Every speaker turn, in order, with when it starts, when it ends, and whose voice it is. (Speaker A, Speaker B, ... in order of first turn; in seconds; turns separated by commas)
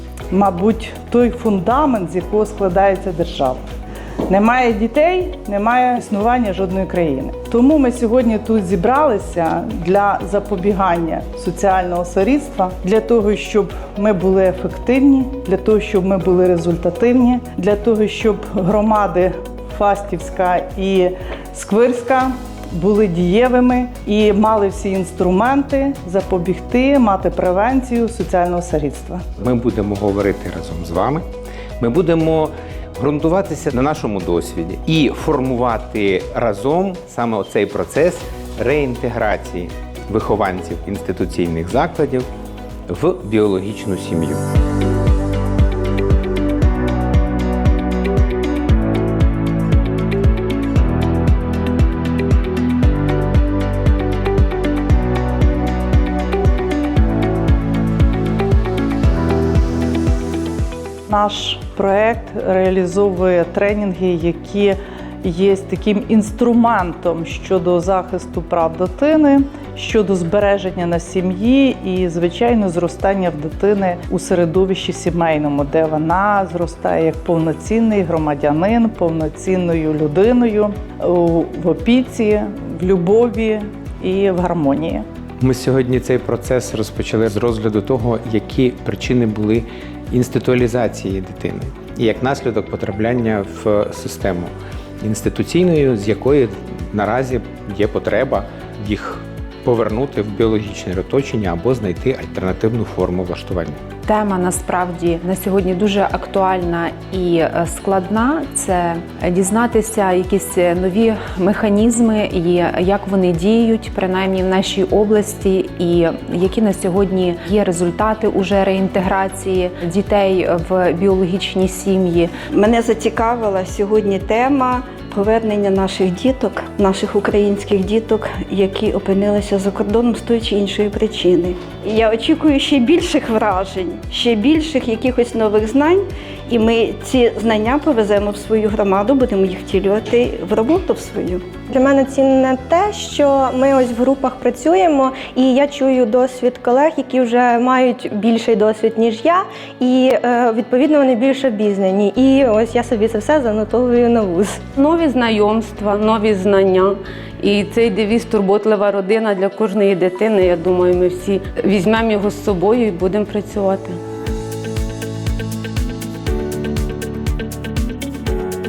Speaker A: 0.3-3.6, Speaker A: 4.3-29.2, Speaker B: 29.4-31.2, Speaker B: 31.8-42.3, Speaker B: 42.9-44.4, Speaker A: 61.1-85.0, Speaker B: 85.4-103.8, Speaker C: 104.0-122.3, Speaker D: 122.5-141.5, Speaker E: 141.7-154.6, Speaker F: 154.8-164.0